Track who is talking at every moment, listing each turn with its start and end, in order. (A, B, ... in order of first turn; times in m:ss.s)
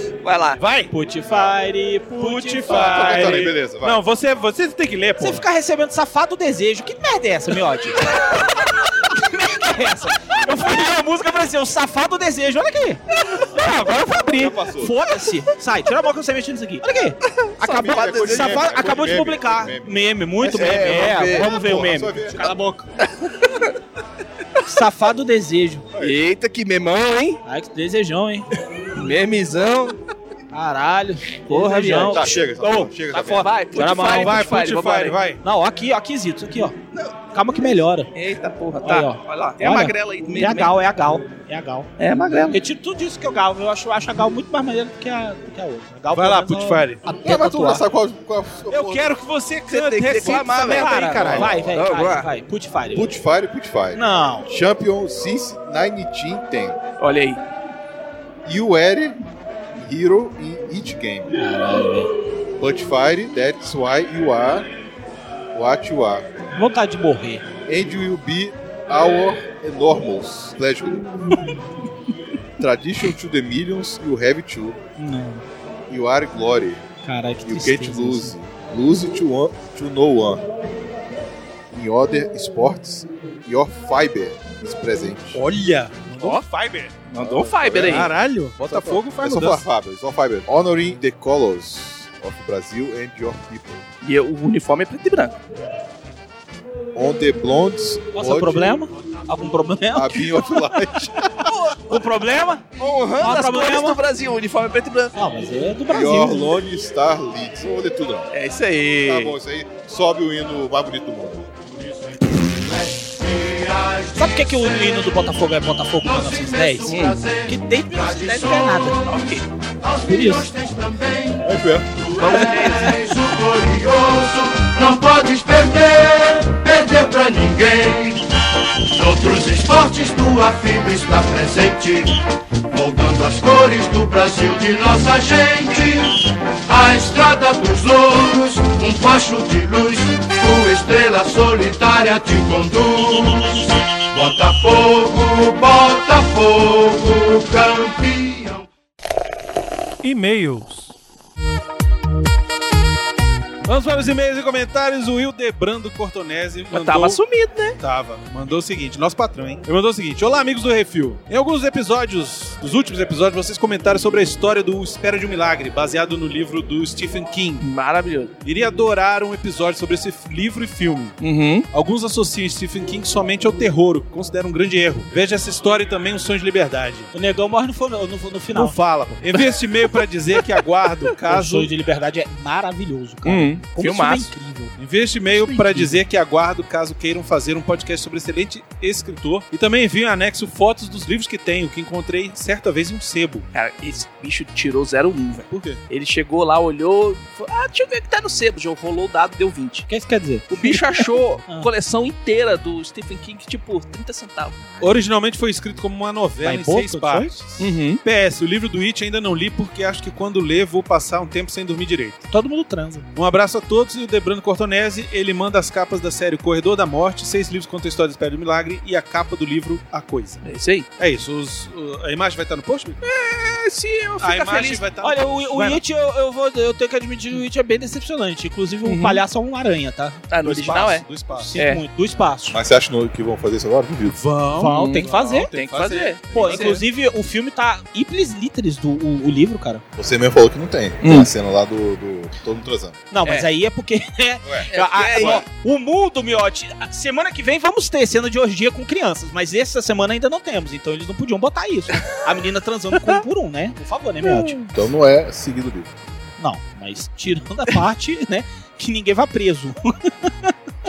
0:00.2-0:00.6 A
0:00.6-0:00.9 B
0:00.9-0:03.4 C
0:02.1-0:05.4 B
0:02.6-0:04.0 D
0:05.2-0:08.4 C
0:09.0-0:22.8 C
0:14.1-0:15.0 D
0:17.4-0:18.7 A
0:17.6-0:22.5 D
0:20.4-0:21.5 A
0:23.0-0:23.7 A
0:24.6-0:25.8 C
0:25.9-0:26.2 D
0:26.0-0:27.4 A
0:27.4-0:28.5 C
0:28.9-0:30.0 A
0:30.5-0:34.5 C
0:31.5-0:32.2 A
0:32.0-0:33.5 D
0:33.2-0:35.2 A
0:33.9-0:35.4 B
0:35.4-0:36.8 C
0:37.3-0:38.1 C
0:38.1-0:40.8 A
0:38.8-0:41.9 C
0:42.0-0:42.6 A
0:42.5-0:47.8 C
0:46.1-0:47.0 B
0:47.0-0:49.2 D
0:48.7-0:51.6 B
0:49.7-0:52.3 A
0:50.4-0:53.1 C
0:51.1-0:51.8 D
0:52.9-0:56.8 D
0:53.9-0:54.5 C
0:57.0-0:57.4 A
0:58.4-0:59.2 D
0:59.8-1:01.3 D
1:01.4-1:02.1 C
1:02.6-1:04.7 D
1:05.5-1:06.2 D
1:06.5-1:07.4 C
1:07.6-1:11.1 D
1:12.6-1:14.8 D
1:15.0-1:15.4 C
1:15.9-1:16.8 D
1:17.0-1:18.3 C
1:17.4-1:20.4 D
1:21.7-1:25.4 D
1:25.3-1:27.0 B
1:27.1-1:28.1 A
1:27.1-1:33.9 D
1:27.8-1:29.6 B
1:34.0-1:35.4 A
1:36.9-1:38.8 D
1:38.1-1:40.9 C
1:39.9-1:41.5 D
1:41.5-1:42.0 A
1:41.8-1:42.6 C
1:42.8-1:45.1 A
1:43.2-1:44.0 C
1:45.1-1:46.6 C
1:45.9-1:48.3 D
1:48.3-1:49.4 A
1:49.0-1:51.4 D
1:52.6-1:54.8 E
1:54.2-1:59.0 C
1:56.0-1:58.9 E
1:56.8-1:57.2 A
1:59.0-1:59.4 A
1:59.8-2:01.4 E
2:00.0-2:00.5 C
2:01.4-2:02.0 D
2:02.0-2:08.3 E
2:02.2-2:03.0 A
2:08.9-2:28.6 E
2:30.0-2:30.9 B
2:33.6-2:37.2 B
2:36.7-2:37.8 A
2:37.8-2:47.7 B
2:47.6-2:48.3 A
2:48.4-2:51.1 B
2:51.2-2:51.7 A
2:51.7-2:57.1 B
2:57.1-2:58.8 C
2:58.5-3:01.7 B
3:01.3-3:04.7 C
3:03.2-3:03.6 B
3:03.5-3:04.3 A
3:04.8-3:13.4 B
3:05.3-3:05.9 C
3:13.5-3:19.9 A
3:15.5-3:15.8 B
3:19.9-3:21.7 C
3:20.5-3:24.6 A
3:24.8-3:32.3 B
3:26.4-3:27.7 C
3:32.3-3:33.1 C
3:33.1-3:40.4 B
3:40.4-3:40.9 A
3:41.0-3:43.0 B
3:43.0-3:44.8 A
3:44.2-3:45.8 B
3:45.0-3:50.2 C
3:48.8-3:49.2 A
3:50.3-3:51.8 A
3:50.4-3:51.6 B
3:51.3-3:52.6 C
3:52.5-3:54.2 D
3:54.1-3:56.8 B
3:54.5-3:55.5 C
3:55.5-3:56.8 A
3:56.3-3:59.8 C
4:00.0-4:03.0 D
4:01.0-4:01.3 A
4:03.1-4:14.6 C
4:04.4-4:05.4 D
4:04.7-4:05.4 A
4:14.2-4:14.6 A
4:14.7-4:15.9 D
4:16.4-4:20.5 C